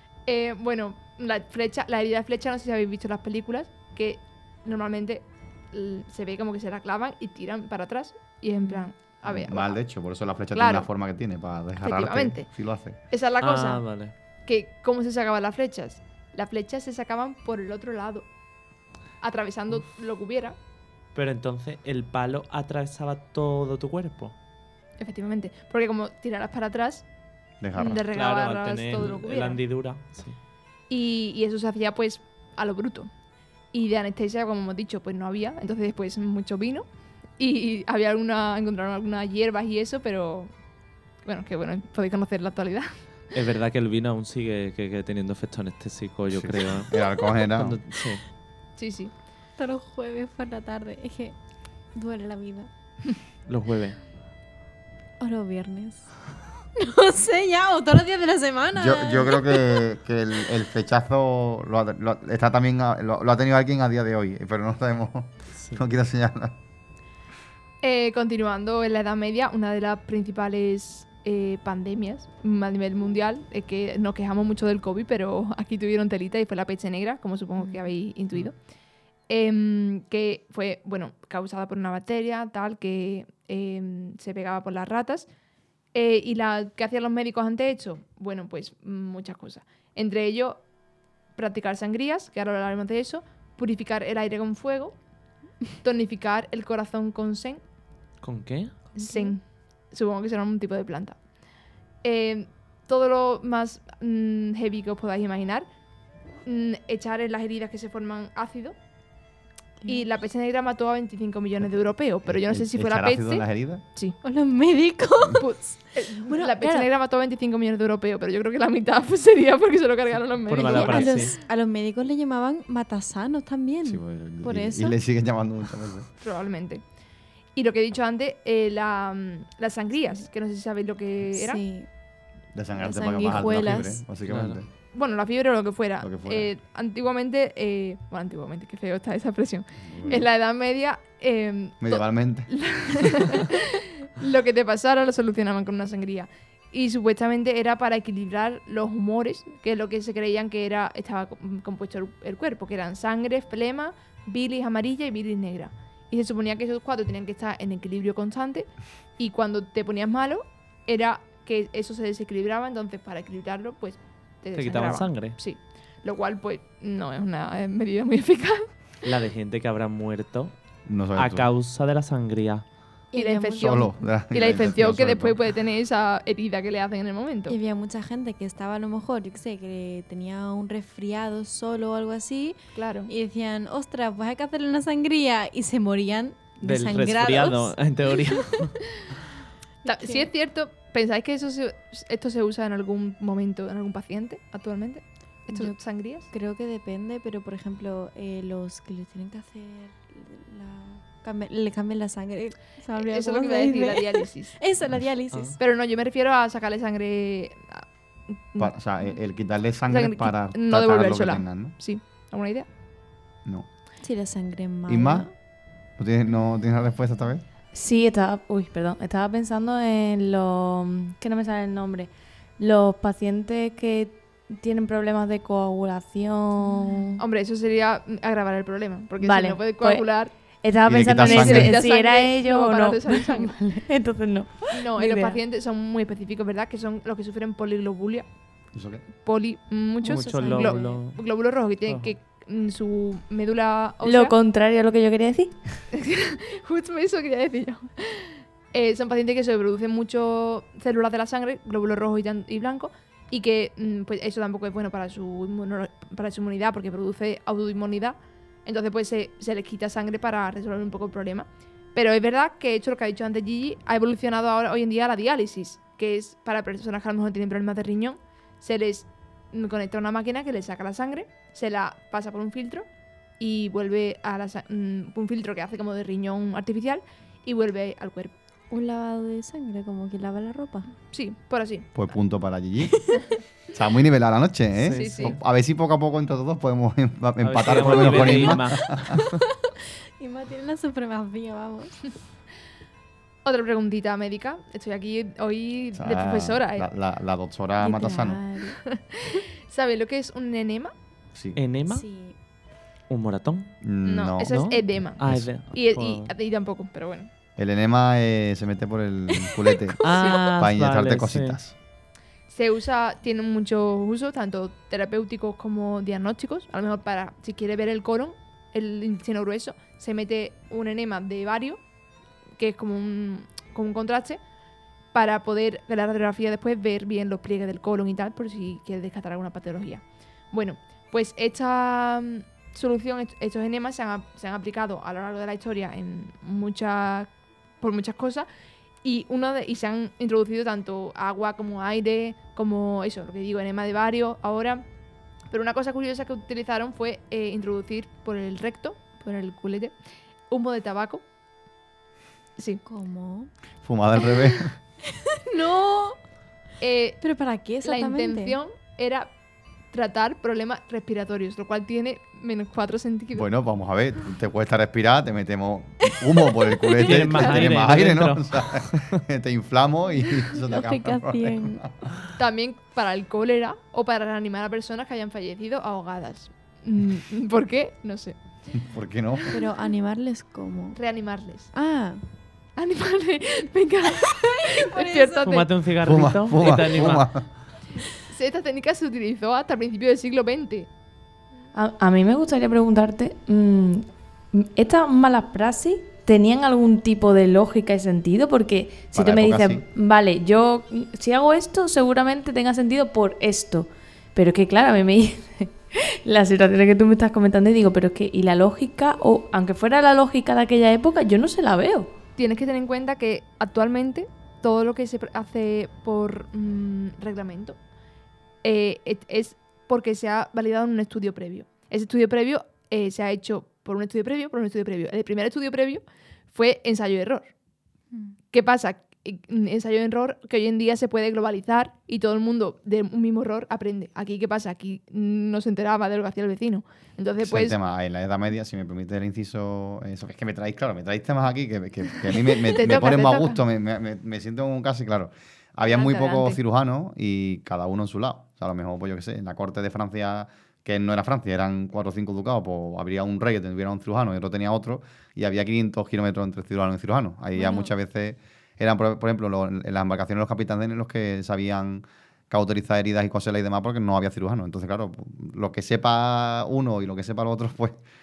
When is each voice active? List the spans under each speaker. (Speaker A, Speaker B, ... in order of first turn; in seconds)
Speaker A: 0.3-9.8, 10.5-10.9, 11.8-12.5, 13.1-13.9, 14.4-18.3, 19.2-20.6, 25.0-27.1, 27.8-29.6, 30.9-33.1, 33.7-36.9, 37.4-40.5, 41.2-42.9, 48.8-49.1, 67.8-78.5, 79.3-85.3, 85.9-90.7, 91.4-95.0, 95.8-97.6, 99.0-101.2, 102.0-105.7, 106.5-108.8, 109.8-114.2, 115.4-121.4, 126.2-126.8, 127.5-131.6, 134.9-168.7, 173.1-177.6, 182.7-183.1, 189.8-196.3, 202.9-204.6, 205.6-207.9, 208.5-208.8, 209.9-212.7, 227.2-230.3, 231.2-233.5, 234.7-238.3, 239.2-244.4, 245.9-272.9, 273.4-278.4, 281.1-281.9, 284.9-285.4, 293.4-296.9, 298.7-300.9, 304.0-307.3, 312.5-321.8, 322.6-324.4, 325.1-338.5, 339.0-344.9, 345.5-349.9, 350.5-351.2, 352.6-352.8, 356.8-357.2, 357.8-359.3, 359.9-363.5, 367.3-367.7, 372.4-378.4, 380.9-381.7, 382.8-385.6, 388.2-390.9, 412.4-417.8, 418.6-427.5, 428.5-437.8, 442.5-443.6, 445.9-446.6
Speaker B: 9.2-13.0, 27.6-28.1, 46.3-47.8, 58.7-66.5, 112.2-113.8, 123.8-126.1, 132.5-134.7, 136.0-136.5, 139.8-140.3, 141.8-142.5, 170.9-171.5, 173.6-175.4, 208.6-211.7, 214.9-215.3, 216.0-217.4, 230.8-231.8, 238.7-239.0, 281.9-283.1, 283.7-289.2, 296.0-298.4, 301.3-301.6, 303.8-304.6, 305.2-305.5, 307.6-311.8, 353.8-354.8, 363.3-372.2, 378.8-379.5, 386.0-387.5, 399.1-399.9, 437.4-468.0
Speaker C: 13.4-14.1, 21.1-24.4, 28.1-30.4, 43.3-46.9, 47.5-48.2, 53.5-54.0, 98.2-98.7, 120.5-121.4, 134.2-134.6, 164.6-165.4, 169.0-170.5, 171.2-172.7, 186.6-188.8, 205.3-205.6, 240.0-241.2, 241.8-242.1, 284.8-285.4, 287.4-289.4, 301.6-302.1, 303.1-303.7, 304.4-306.3, 310.0-311.6, 367.0-369.2, 385.4-387.3
Speaker D: 49.6-51.3, 52.0-52.7, 55.2-56.0, 56.8-59.8, 77.6-77.9, 98.9-99.4, 114.2-116.8, 120.6-125.0, 131.3-131.9, 132.8-134.0, 173.1-173.8, 177.5-188.4, 189.8-190.3, 195.5-195.8, 196.3-205.6, 214.0-215.3, 240.1-241.0, 278.7-280.9, 290.2-292.1, 297.8-298.8, 301.9-302.3, 352.8-353.5, 354.2-356.2, 357.2-358.6, 366.7-367.1, 370.5-371.8, 379.5-381.0, 381.8-382.2, 384.9-385.7, 457.6-457.9
Speaker E: 217.7-227.2, 229.2-230.1, 230.6-235.4, 244.0-245.6, 391.7-412.1